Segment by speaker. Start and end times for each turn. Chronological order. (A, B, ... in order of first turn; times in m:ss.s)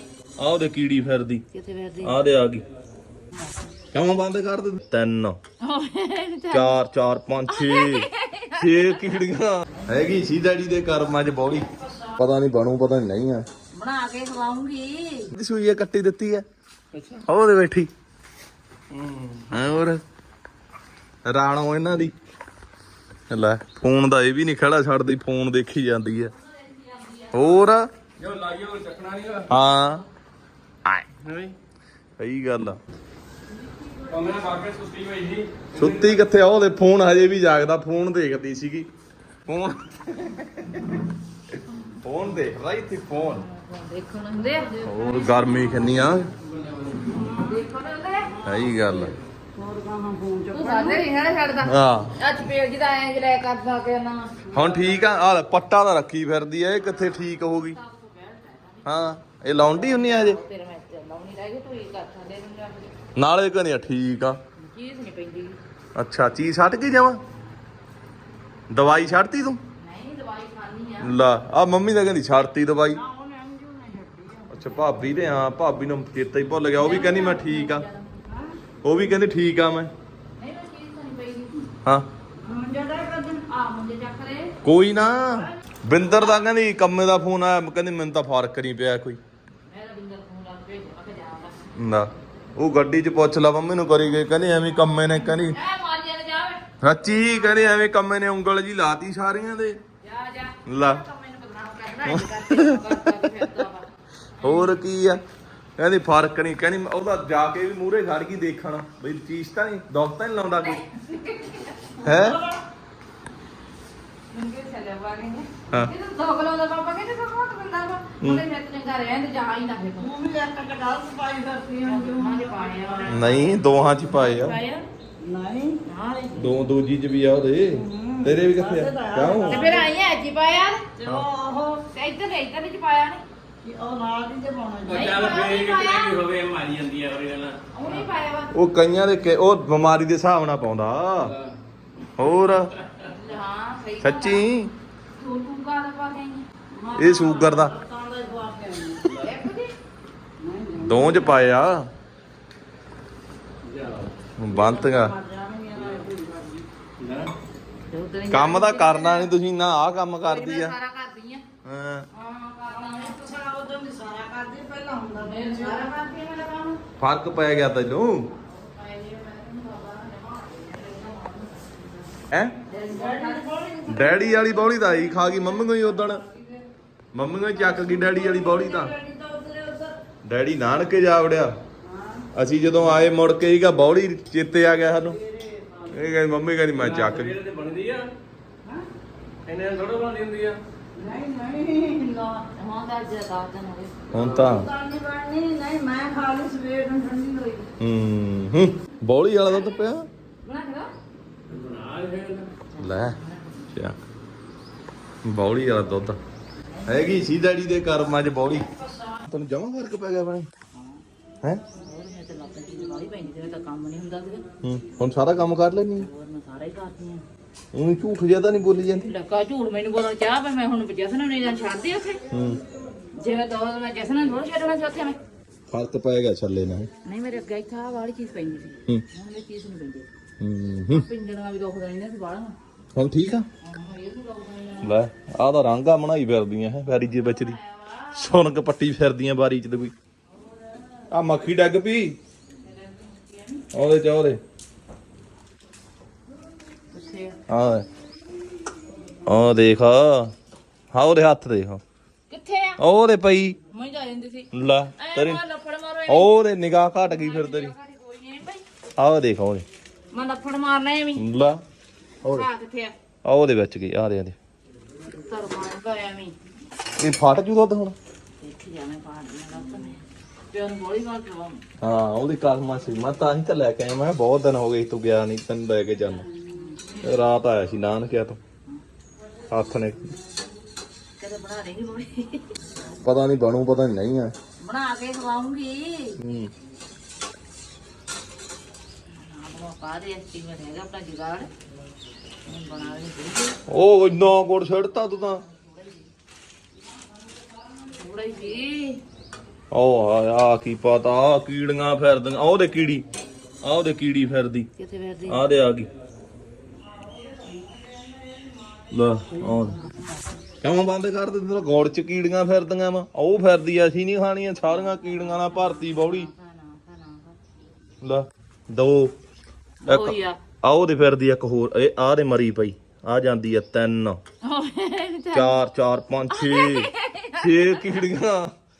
0:00.4-0:01.4 A
0:01.5-0:02.2 B
0:02.0-0:02.6 A
0:03.9-0:05.4 A
0:05.6-0:06.8 B
0:06.5-0:13.4 A
0:07.5-0:09.2 B
0:13.7-0:15.3 B
0:15.3-0:16.4 A
0:16.9-0:17.2 C
0:17.3-0:17.9 A
0:18.9-0:19.5 C
0:19.5-0:20.0 A
0:21.3-0:22.1 A
0:23.3-0:26.3 A
0:26.4-0:27.6 B
0:27.3-0:27.9 A
0:28.2-0:29.5 C
0:29.5-0:30.0 A
0:31.2-0:31.6 C
0:32.2-0:32.8 A
0:34.1-0:36.2 C
0:35.7-0:38.9 A
0:39.5-0:41.0 A
0:42.0-0:43.4 A
0:43.2-0:46.1 B
0:44.8-0:46.3 A
0:46.7-0:47.0 C
0:47.1-0:47.6 D
0:47.2-0:48.3 B
0:48.3-0:51.1 D
0:48.4-0:49.2 A
0:50.5-0:54.4 B
0:51.6-0:52.1 A
0:54.5-0:57.8 A
0:54.5-0:55.0 D
0:56.6-1:02.9 B
0:58.8-1:00.4 A
1:03.2-1:04.4 A
1:04.6-1:05.6 B
1:06.0-1:07.2 A
1:08.7-1:09.6 A
1:09.8-1:11.2 B
1:11.0-1:13.0 A
1:12.9-1:14.6 D
1:14.5-1:17.8 A
1:16.8-1:18.1 B
1:18.3-1:18.6 D
1:18.8-1:19.9 A
1:20.4-1:21.7 B
1:22.4-1:23.5 D
1:23.5-1:24.6 B
1:24.6-1:29.2 A
1:29.7-1:31.6 B
1:31.8-1:35.6 A
1:34.8-1:37.8 B
1:36.8-1:39.8 A
1:40.0-1:43.9 B
1:40.7-1:41.0 A
1:42.1-1:43.5 A
1:44.4-1:44.8 B
1:44.4-1:45.2 A
1:45.8-1:50.8 A
1:50.6-1:52.0 B
1:52.0-1:52.4 A
1:52.0-1:52.6 D
1:54.3-2:00.1 B
2:00.0-2:03.3 D
2:01.8-2:04.9 B
2:03.1-2:04.6 A
2:05.2-2:05.8 D
2:05.9-2:06.6 B
2:06.4-2:09.8 A
2:07.7-2:09.9 D
2:09.4-2:10.8 B
2:11.0-2:11.9 D
2:11.9-2:13.2 B
2:13.6-2:15.2 D
2:14.9-2:17.6 C
2:14.9-2:16.2 B
2:17.7-2:18.5 B
2:18.5-2:21.3 A
2:22.2-2:22.7 A
2:23.1-2:24.4 B
2:24.0-2:24.7 A
2:25.2-2:26.5 B
2:26.7-2:29.1 D
2:27.0-2:27.7 A
2:29.2-2:29.7 B
2:30.4-2:31.4 D
2:30.8-2:31.9 A
2:33.6-2:34.1 C
2:34.4-2:35.1 A
2:34.5-2:36.7 D
2:37.0-2:37.3 C
2:37.9-2:39.3 B
2:38.3-2:40.8 A
2:40.2-2:41.5 B
2:41.6-2:42.1 A
2:42.1-2:43.5 B
2:42.9-2:46.0 D
2:45.2-2:46.8 B
2:47.0-2:48.3 A
2:48.4-2:51.9 B
2:52.3-2:52.6 A
2:52.7-2:55.3 B
2:52.9-2:54.5 D
2:53.9-2:56.2 A
2:55.2-2:56.6 D
2:57.1-2:58.9 A
2:57.6-3:00.0 D
3:00.2-3:01.5 A
3:01.8-3:02.3 D
3:02.4-3:05.2 A
3:05.0-3:06.1 D
3:05.9-3:07.4 A
3:06.8-3:08.1 C
3:09.5-3:10.6 C
3:11.0-3:12.4 D
3:12.6-3:14.1 B
3:14.1-3:14.7 A
3:14.1-3:14.5 C
3:14.3-3:17.7 D
3:17.8-3:20.1 A
3:19.5-3:19.8 B
3:20.4-3:20.9 B
3:21.5-3:22.5 C
3:22.7-3:23.7 B
3:22.8-3:23.2 A
3:25.2-3:26.2 A
3:26.7-3:27.2 B
3:26.9-3:30.5 A
3:30.8-3:31.0 B
3:31.7-3:34.4 B
3:34.6-3:36.1 A
3:36.0-3:37.2 B
3:37.7-3:39.1 A
3:39.0-3:42.2 B
3:42.3-3:42.6 A
3:43.2-3:45.2 B
3:45.7-3:46.9 A
3:47.0-3:50.1 B
3:50.4-3:51.1 A
3:50.9-3:52.6 B
3:53.0-3:53.5 A
3:53.6-3:55.0 B
3:54.8-3:57.6 A
3:56.9-3:58.5 B
3:58.1-3:59.9 A
4:00.3-4:01.0 B
4:01.1-4:02.2 A
4:02.6-4:03.6 B
4:03.7-4:04.4 A
4:06.9-4:07.4 B
4:07.5-4:07.8 A
4:09.3-4:10.3 A
4:10.9-4:11.8 A
4:12.3-4:12.8 B
4:12.8-4:13.6 A
4:13.7-4:16.3 B
4:14.5-4:15.4 A
4:16.1-4:17.8 A
4:17.0-4:18.6 B
4:19.0-4:19.6 A
4:20.1-4:21.3 B
4:21.2-4:21.6 A
4:22.2-4:23.0 B
4:23.2-4:24.4 A
4:25.1-4:26.4 B
4:27.0-4:28.0 A
4:28.4-4:31.6 B
4:31.8-4:36.3 A
4:36.5-4:37.2 B
4:37.0-4:38.4 A
4:39.5-4:40.1 A
4:41.2-4:42.6 B
4:42.9-4:44.3 A
4:44.6-4:46.5 B
4:46.2-4:46.5 A
4:49.1-4:51.5 B
4:52.5-4:53.6 B
4:53.7-4:55.4 A
4:55.0-4:56.1 B
4:57.9-4:59.0 B
4:59.7-5:03.0 A
5:03.6-5:04.7 A
5:04.8-5:05.5 B
5:05.3-5:05.9 A
5:07.3-5:08.6 D
5:08.9-5:09.8 A
5:10.6-5:16.3 A
5:14.6-5:17.4 B
5:18.0-5:19.1 A
5:19.8-5:20.4 B
5:19.9-5:24.2 A
5:24.4-5:25.6 B
5:25.3-5:26.9 A
5:26.3-5:28.1 B
5:27.4-5:28.5 A